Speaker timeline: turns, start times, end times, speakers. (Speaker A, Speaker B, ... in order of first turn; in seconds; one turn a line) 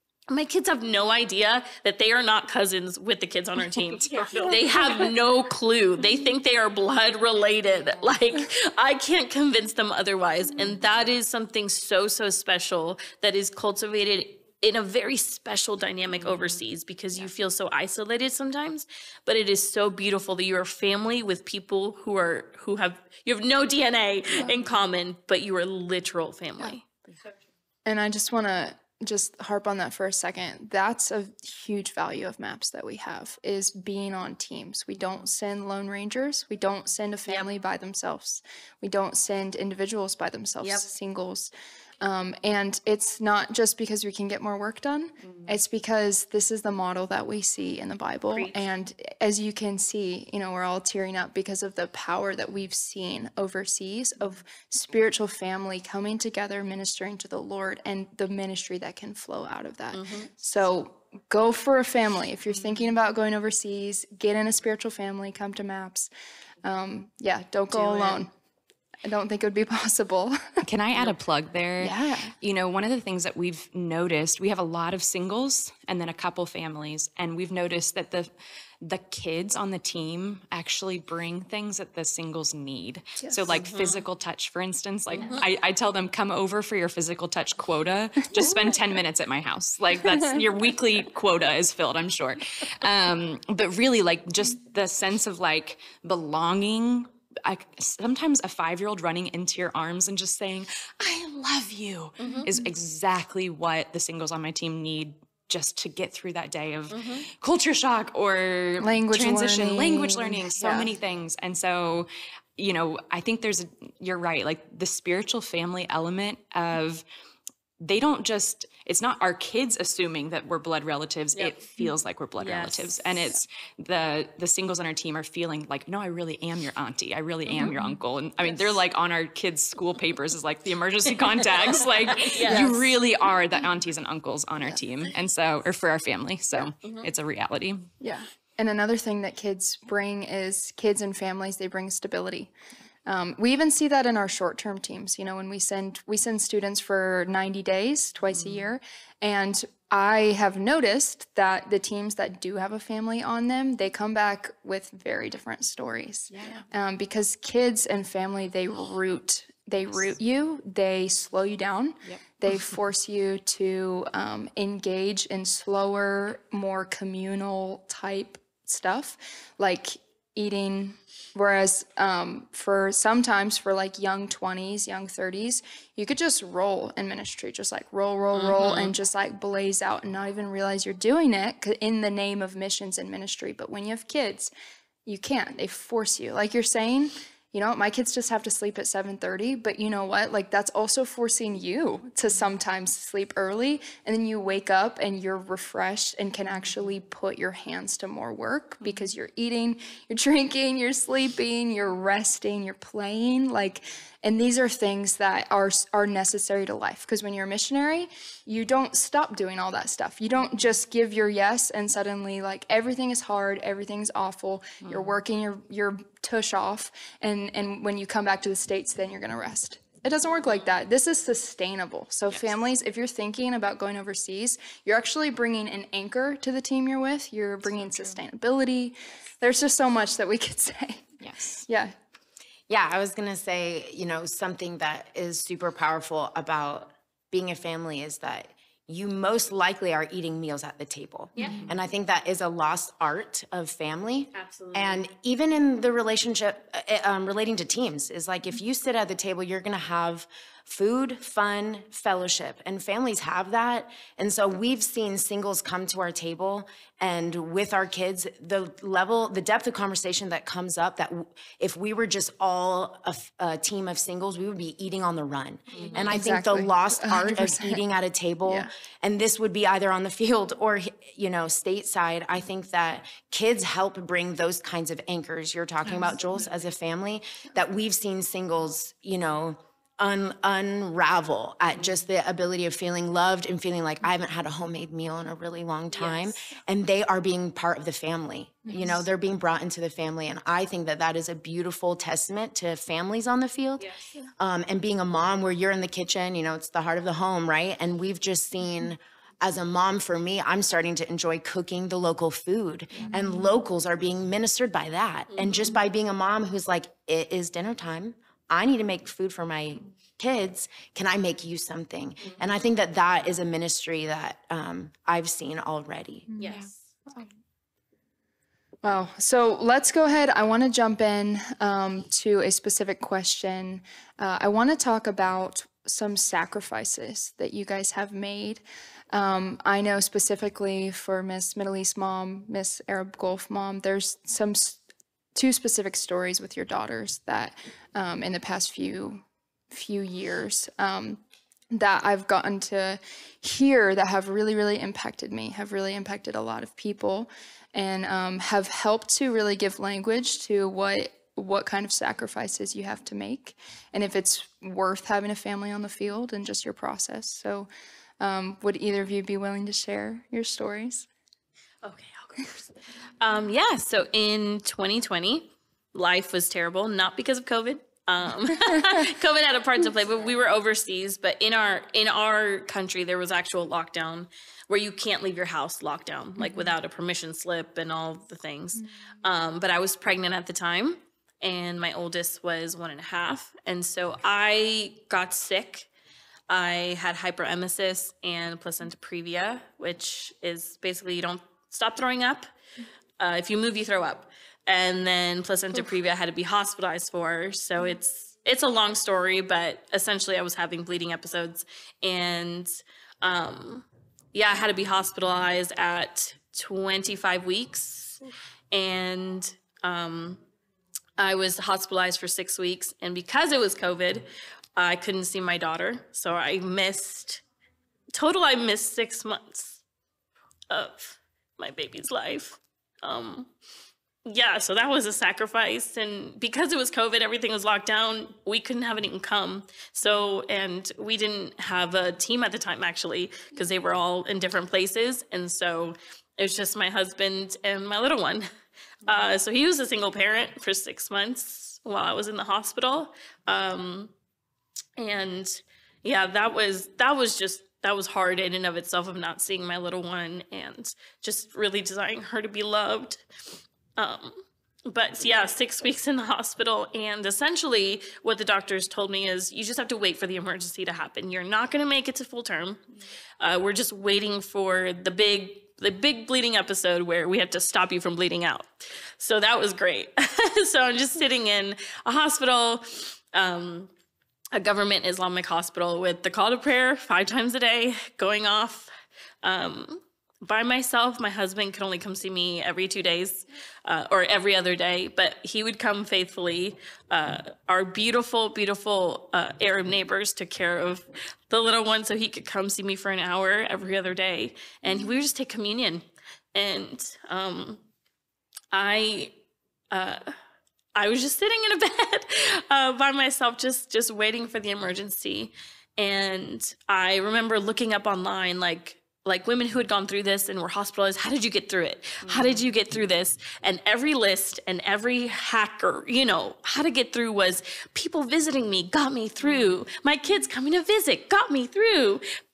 Speaker A: 0.3-26.9
Speaker B: 3.9-4.9
Speaker B: 16.2-16.6
Speaker C: 27.9-41.5
Speaker A: 40.6-40.9
Speaker C: 42.0-66.1
Speaker A: 45.2-45.5
Speaker A: 48.3-48.6
Speaker A: 59.9-60.3
Speaker C: 66.6-68.3
Speaker A: 67.7-68.2
Speaker C: 69.0-70.4
Speaker B: 70.6-78.3
Speaker C: 71.8-72.3
Speaker B: 78.8-117.0
Speaker C: 83.2-83.6
Speaker A: 83.5-84.0
Speaker A: 102.2-102.5
Speaker A: 106.9-107.3
Speaker C: 108.8-110.9
Speaker B: 117.8-137.9
Speaker A: 122.4-122.9
Speaker C: 127.5-128.0
Speaker A: 131.4-132.7
Speaker C: 132.4-133.0
Speaker A: 136.8-137.1
Speaker C: 138.0-142.5
Speaker C: 143.1-184.5
Speaker B: 148.3-148.7
Speaker B: 156.3-156.6
Speaker A: 178.3-178.9
Speaker C: 185.1-231.9
Speaker B: 214.8-215.2
Speaker B: 222.3-222.6
Speaker B: 227.7-228.2
Speaker B: 231.2-231.6
Speaker D: 232.7-293.9
Speaker A: 241.3-241.7
Speaker B: 241.4-241.8
Speaker A: 244.3-245.0
Speaker A: 265.7-266.1
Speaker C: 266.1-267.8
Speaker A: 285.9-286.4
Speaker A: 293.8-294.1
Speaker D: 294.4-316.3
Speaker A: 305.3-305.8
Speaker C: 316.3-317.3
Speaker A: 316.4-316.8
Speaker C: 318.8-334.8
Speaker C: 335.3-357.7
Speaker C: 358.2-361.1
Speaker A: 361.8-385.9
Speaker C: 376.4-376.7
Speaker A: 386.5-392.5
Speaker A: 393.2-410.4
Speaker A: 411.2-417.4
Speaker A: 418.1-419.8
Speaker A: 420.7-423.5
Speaker A: 424.2-438.5
Speaker A: 439.1-444.1
Speaker A: 445.0-453.2
Speaker A: 454.0-462.8
Speaker A: 463.4-473.9
Speaker A: 474.5-478.9
Speaker A: 479.4-497.8
Speaker C: 494.9-495.1
Speaker A: 498.7-499.3
Speaker A: 499.9-500.3
Speaker A: 500.9-522.2
Speaker B: 512.2-512.6
Speaker B: 519.4-519.8